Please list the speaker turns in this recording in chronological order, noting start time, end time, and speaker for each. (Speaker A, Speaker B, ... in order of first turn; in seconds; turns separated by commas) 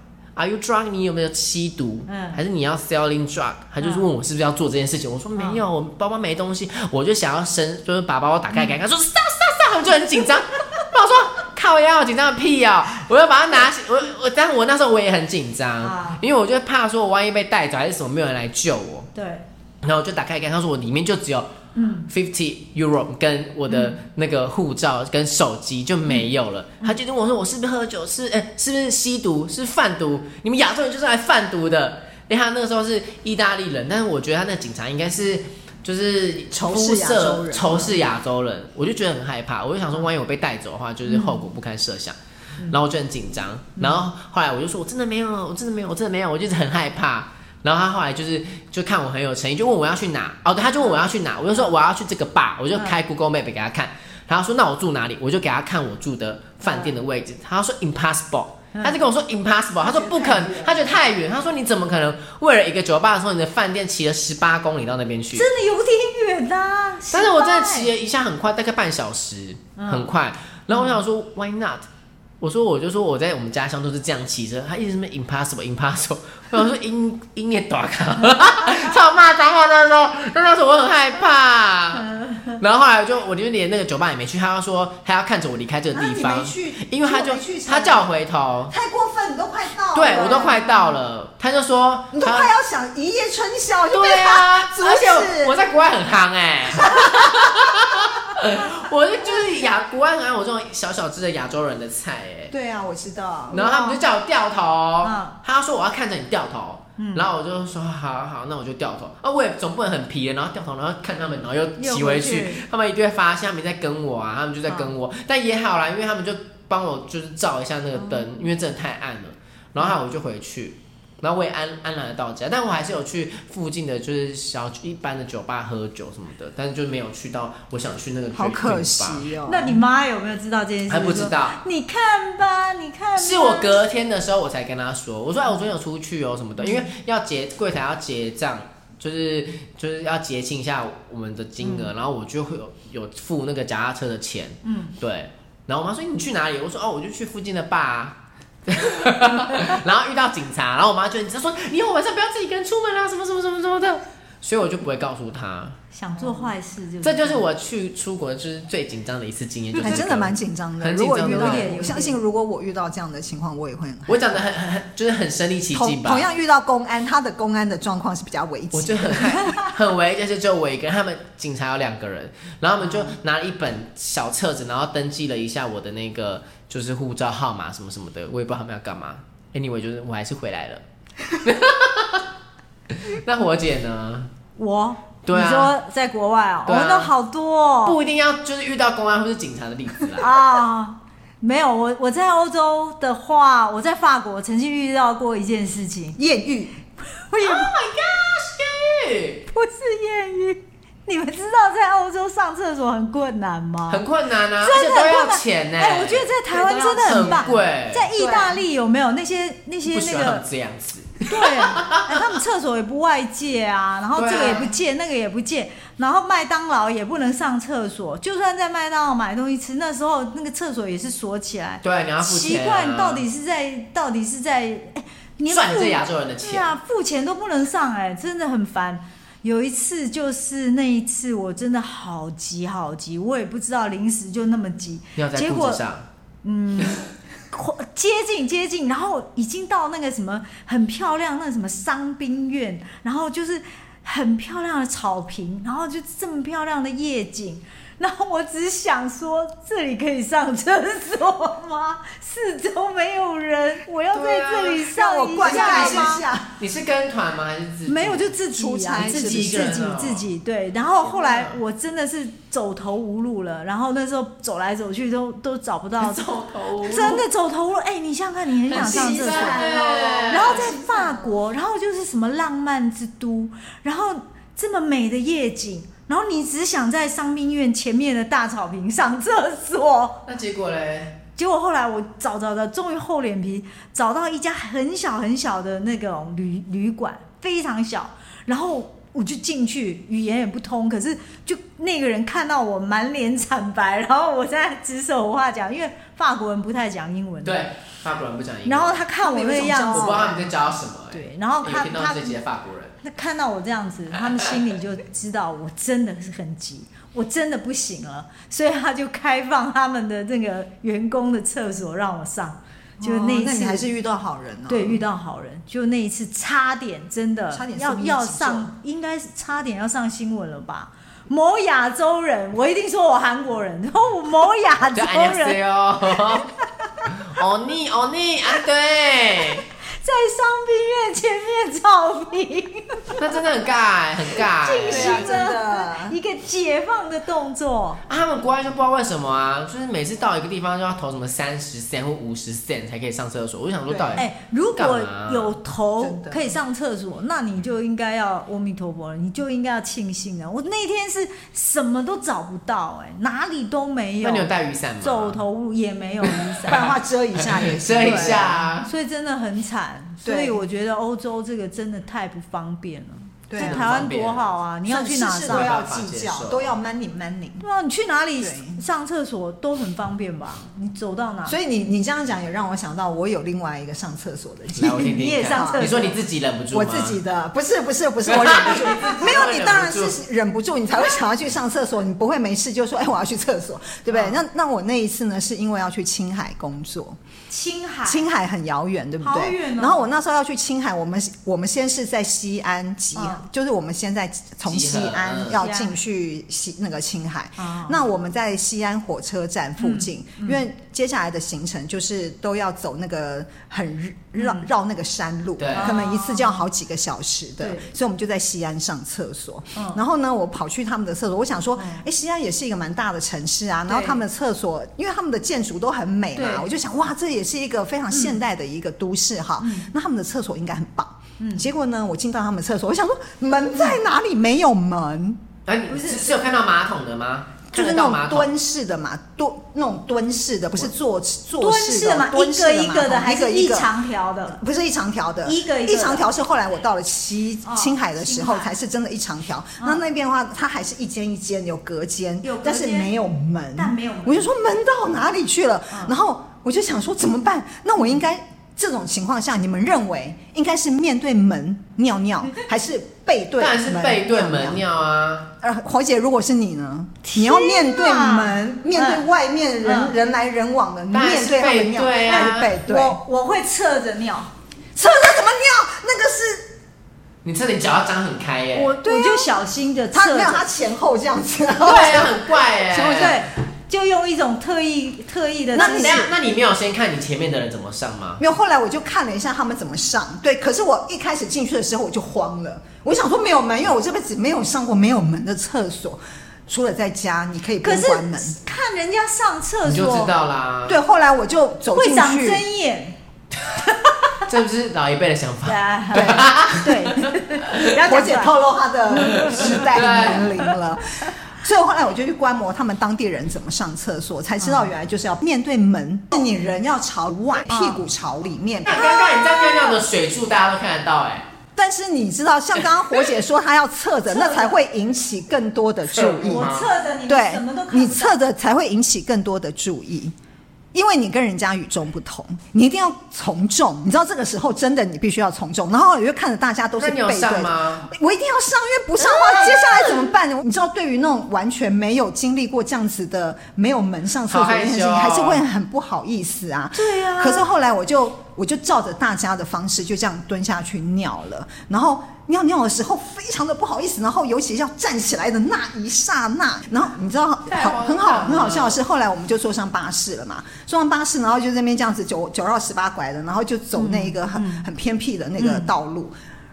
Speaker A: 0.3-19.1, Speaker B: 2.1-2.4, Speaker B: 3.8-4.0, Speaker B: 5.4-5.6, Speaker B: 8.5-8.8, Speaker B: 15.8-16.2, Speaker B: 19.1-19.4, Speaker A: 19.8-21.5, Speaker B: 21.7-22.1, Speaker A: 22.1-42.1, Speaker B: 23.7-24.0, Speaker C: 36.5-38.0, Speaker B: 41.1-41.4, Speaker A: 42.7-65.5, Speaker B: 43.8-44.0, Speaker B: 56.6-56.9, Speaker B: 58.7-59.0, Speaker B: 59.8-60.9, Speaker B: 65.3-67.9, Speaker A: 67.1-71.8, Speaker B: 69.8-70.1, Speaker B: 70.7-71.0, Speaker A: 72.4-88.7, Speaker B: 82.0-82.6, Speaker C: 85.9-88.1, Speaker C: 88.7-90.6, Speaker A: 89.9-92.5, Speaker B: 90.0-91.0, Speaker C: 92.1-95.5, Speaker A: 93.9-102.5, Speaker C: 96.7-98.0, Speaker C: 102.5-103.6, Speaker B: 103.5-104.0, Speaker A: 103.5-129.3, Speaker B: 105.0-105.4, Speaker B: 107.0-107.3, Speaker B: 111.8-112.6, Speaker B: 118.0-118.3, Speaker C: 128.3-129.8, Speaker B: 129.4-133.8, Speaker A: 130.9-131.6, Speaker A: 133.2-155.8, Speaker B: 136.6-136.9, Speaker B: 141.6-141.9, Speaker B: 144.6-144.9, Speaker B: 155.9-157.4, Speaker A: 157.0-161.9, Speaker C: 159.8-164.2, Speaker B: 161.2-162.2, Speaker A: 164.1-166.3, Speaker C: 165.7-169.4, Speaker A: 168.7-182.2, Speaker A: 182.9-184.3, Speaker B: 184.6-188.0, Speaker A: 185.2-185.7, Speaker A: 186.7-187.1, Speaker A: 187.8-190.4, Speaker B: 190.2-196.2, Speaker C: 196.2-196.7, Speaker B: 197.2-197.7, Speaker A: 197.4-199.4, Speaker B: 199.5-204.0, Speaker A: 203.9-208.6, Speaker B: 204.6-210.4, Speaker C: 207.0-207.6, Speaker A: 209.8-212.2, Speaker B: 211.3-235.8, Speaker A: 214.1-214.7, Speaker A: 221.8-223.2, Speaker A: 225.5-226.7, Speaker A: 235.2-236.0, Speaker B: 236.4-256.2, Speaker A: 254.1-258.3, Speaker C: 254.9-256.5, Speaker B: 257.9-266.3, Speaker C: 258.5-259.8, Speaker A: 258.9-260.3, Speaker A: 261.0-261.6, Speaker A: 266.0-267.2, Speaker B: 266.8-280.2, Speaker A: 268.7-270.7, Speaker C: 268.7-271.3, Speaker A: 280.2-281.2, Speaker B: 281.4-297.6, Speaker A: 297.4-299.0, Speaker B: 298.6-300.3, Speaker C: 299.2-300.4, Speaker A: 299.7-302.9, Speaker B: 301.1-302.4, Speaker B: 303.0-313.9, Speaker C: 313.0-315.0, Speaker B: 314.7-325.6, Speaker C: 317.5-318.7, Speaker A: 324.9-326.5, Speaker A: 327.0-329.6, Speaker B: 330.0-333.2, Speaker A: 333.2-335.3, Speaker B: 334.5-338.0, Speaker C: 334.9-336.2, Speaker A: 338.1-345.6, Speaker C: 343.9-344.2, Speaker B: 344.2-354.5, Speaker C: 346.0-346.5, Speaker A: 354.2-355.4, Speaker B: 355.0-356.9, Speaker A: 356.2-356.9, Speaker C: 356.7-358.6, Speaker A: 357.4-358.9, Speaker B: 358.0-365.7, Speaker C: 360.2-360.6, Speaker C: 363.5-364.1, Speaker A: 363.6-364.5, Speaker C: 364.9-367.6, Speaker A: 365.4-366.7, Speaker B: 367.6-371.6, Speaker C: 368.4-368.8, Speaker C: 371.4-375.9, Speaker A: 374.7-377.2, Speaker B: 375.0-376.1, Speaker C: 376.7-387.2, Speaker A: 378.3-380.1, Speaker B: 378.7-379.2, Speaker B: 384.1-384.4, Speaker B: 387.5-388.2, Speaker C: 388.0-425.4, Speaker B: 389.2-390.1, Speaker B: 393.1-393.4, Speaker A: 394.6-395.6, Speaker B: 395.6-395.9, Speaker B: 397.6-398.0, Speaker B: 399.8-400.6, Speaker B: 404.4-404.7, Speaker A: 405.6-406.0, Speaker B: 405.7-406.6, Speaker B: 407.6-407.9, Speaker B: 411.8-412.0, Speaker B: 413.9-414.2, Speaker B: 416.3-416.6, Speaker B: 418.1-418.4, Speaker B: 419.6-419.9, Speaker B: 421.4-421.6, Speaker A: 425.6-428.5, Speaker B: 425.9-426.3, Speaker C: 427.7-433.9, Speaker B: 431.6-434.6, Speaker C: 434.5-454.8, Speaker B: 435.4-436.3, Speaker B: 437.6-438.7, Speaker B: 442.4-443.1, Speaker B: 443.8-444.5, Speaker A: 453.6-455.5, Speaker C: 455.6-463.2, Speaker B: 457.2-459.2, Speaker B: 459.8-460.1, Speaker A: 461.1-462.7, Speaker B: 462.2-464.5, Speaker C: 464.9-466.7, Speaker A: 467.4-468.9, Speaker B: 468.7-470.6, Speaker C: 469.0-469.5, Speaker C: 470.1-473.4, Speaker A: 471.8-473.4, Speaker B: 472.9-476.2, Speaker C: 475.7-476.3, Speaker A: 475.7-478.4, Speaker C: 478.4-488.6, Speaker B: 487.8-490.3, Speaker A: 489.8-491.0, Speaker C: 490.9-492.6, Speaker B: 491.9-493.1, Speaker B: 493.9-494.3, Speaker A: 494.4-497.9, Speaker B: 495.6-498.5, Speaker C: 496.1-496.7, Speaker C: 498.0-509.0, Speaker B: 499.1-499.9, Speaker A: 499.2-500.5, Speaker B: 504.6-504.9, Speaker B: 507.7-508.0, Speaker A: 508.8-511.5, Speaker B: 508.9-510.0, Speaker C: 511.7-516.7, Speaker B: 514.3-514.8, Speaker A: 516.1-516.9, Speaker B: 516.4-518.4, Speaker C: 517.3-520.3, Speaker C: 520.9-556.3, Speaker A: 527.0-528.1, Speaker B: 529.2-530.3, Speaker A: 534.5-535.6, Speaker B: 536.9-537.6, Speaker A: 547.7-549.0, Speaker B: 553.9-554.9, Speaker B: 555.6-555.9